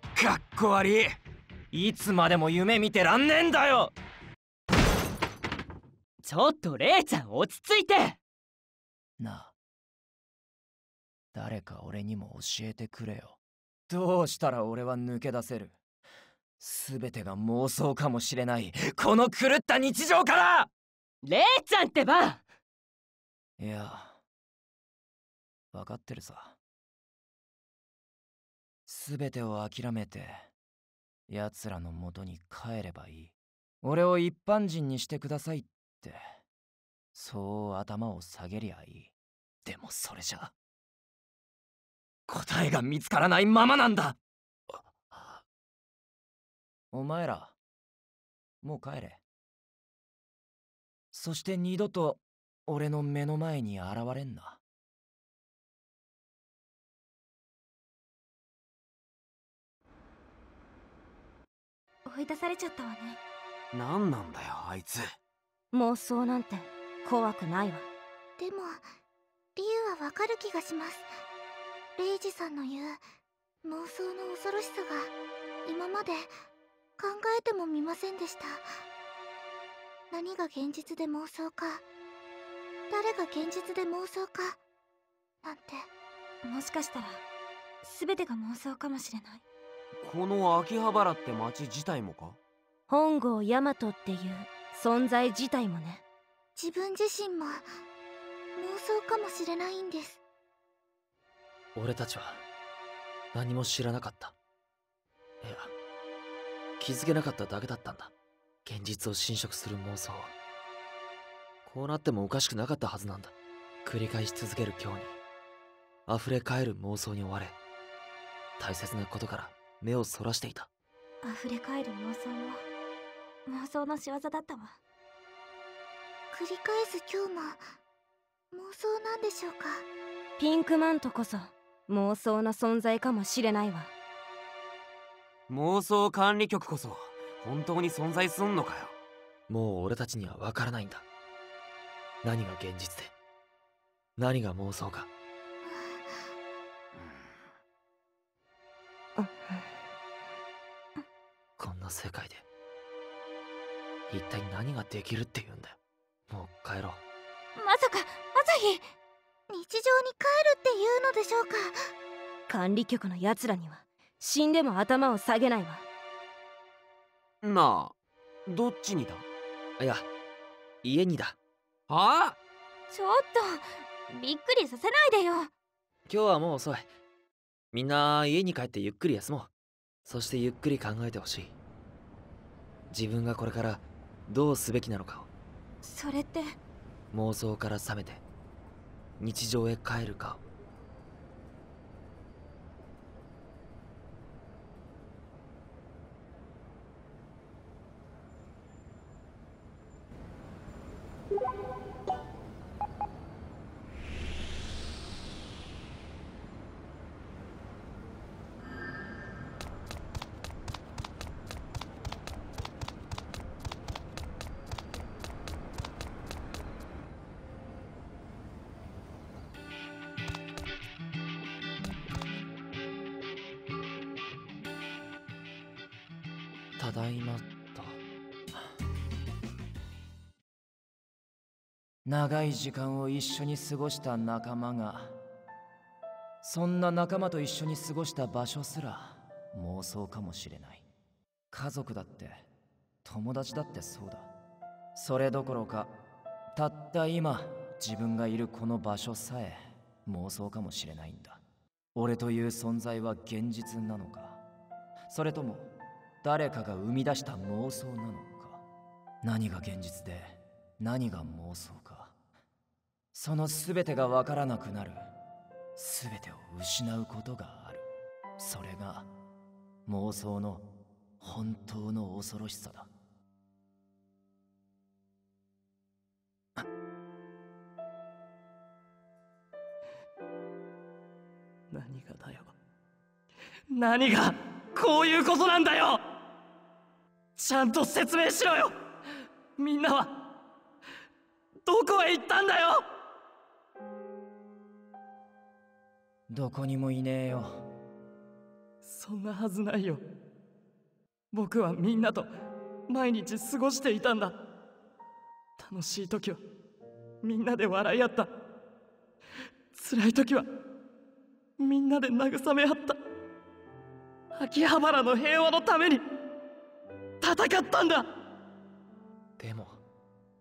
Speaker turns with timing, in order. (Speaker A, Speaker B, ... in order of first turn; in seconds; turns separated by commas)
Speaker A: 0.2-1.2, Speaker B: 1.7-3.9, Speaker C: 6.2-8.2, Speaker B: 9.2-9.5, Speaker B: 11.3-13.4, Speaker B: 13.9-15.8, Speaker B: 16.6-20.7, Speaker C: 21.2-22.4, Speaker B: 23.6-24.2, Speaker B: 25.7-26.6, Speaker B: 28.9-30.5, Speaker B: 31.3-36.4, Speaker B: 37.1-39.1, Speaker B: 39.6-40.5, Speaker B: 42.3-44.2, Speaker D: 44.7-45.4, Speaker B: 46.9-47.6, Speaker B: 48.6-49.2, Speaker B: 51.1-54.6, Speaker E: 62.1-63.2, Speaker A: 63.7-65.0, Speaker F: 65.7-67.9, Speaker G: 68.4-68.8, Speaker G: 69.6-71.1, Speaker G: 72.0-73.0, Speaker G: 73.7-75.1, Speaker G: 75.7-76.3, Speaker G: 77.0-78.7, Speaker G: 80.1-81.8, Speaker G: 82.9-84.6, Speaker G: 85.4-85.9, Speaker E: 86.4-87.2, Speaker E: 87.8-89.4, Speaker A: 90.0-92.4, Speaker F: 92.9-96.0, Speaker G: 96.6-97.7, Speaker G: 98.6-100.2, Speaker D: 101.8-102.4, Speaker D: 103.3-104.3, Speaker D: 105.4-105.7, Speaker D: 106.8-108.1, Speaker D: 108.7-110.3, Speaker D: 111.7-115.2, Speaker D: 116.1-117.6, Speaker D: 118.6-120.7, Speaker E: 121.2-122.6, Speaker E: 123.5-124.8, Speaker G: 126.3-127.8, Speaker G: 128.5-129.9, Speaker F: 130.4-133.9, Speaker A: 135.5-138.9, Speaker D: 139.5-141.1, Speaker D: 142.2-143.1, Speaker D: 144.2-145.1, Speaker G: 145.6-146.3, Speaker F: 149.2-149.7, Speaker D: 151.6-152.4, Speaker D: 154.1-155.8, Speaker D: 156.3-157.0, Speaker E: 157.6-158.9, Speaker G: 159.5-161.8, Speaker F: 162.5-165.8, Speaker A: 167.4-167.9, Speaker A: 168.5-169.2, Speaker D: 169.8-170.1, Speaker D: 170.8-171.4, Speaker A: 171.9-172.4, Speaker E: 172.9-175.5, Speaker D: 176.1-176.9, Speaker D: 177.7-179.5, Speaker D: 180.1-181.6, Speaker D: 182.9-185.3, Speaker E: 185.8-186.6, Speaker D: 187.1-188.2, Speaker D: 189.2-190.4, Speaker D: 226.8-228.0, Speaker B: 232.1-235.2, Speaker B: 236.4-240.8, Speaker B: 241.5-242.5, Speaker B: 243.0-244.3, Speaker B: 244.9-245.9, Speaker B: 246.5-251.4, Speaker B: 251.9-254.4, Speaker B: 255.1-255.7, Speaker B: 256.2-258.6, Speaker B: 259.2-262.1, Speaker B: 263.1-265.1, Speaker B: 265.8-267.9, Speaker B: 268.4-269.1, Speaker B: 269.9-270.7, Speaker B: 271.2-272.9, Speaker H: 281.7-282.6, Speaker H: 283.7-286.0, Speaker H: 287.4-288.8, Speaker H: 289.6-290.2, Speaker H: 291.7-292.8, Speaker B: 296.3-297.6, Speaker H: 298.8-300.0, Speaker H: 301.3-302.3, Speaker H: 302.9-304.4, Speaker H: 305.6-306.4, Speaker H: 307.2-308.3, Speaker H: 309.7-310.5, Speaker H: 311.6-313.0, Speaker H: 314.3-316.0, Speaker H: 317.2-318.1, Speaker D: 319.4-319.8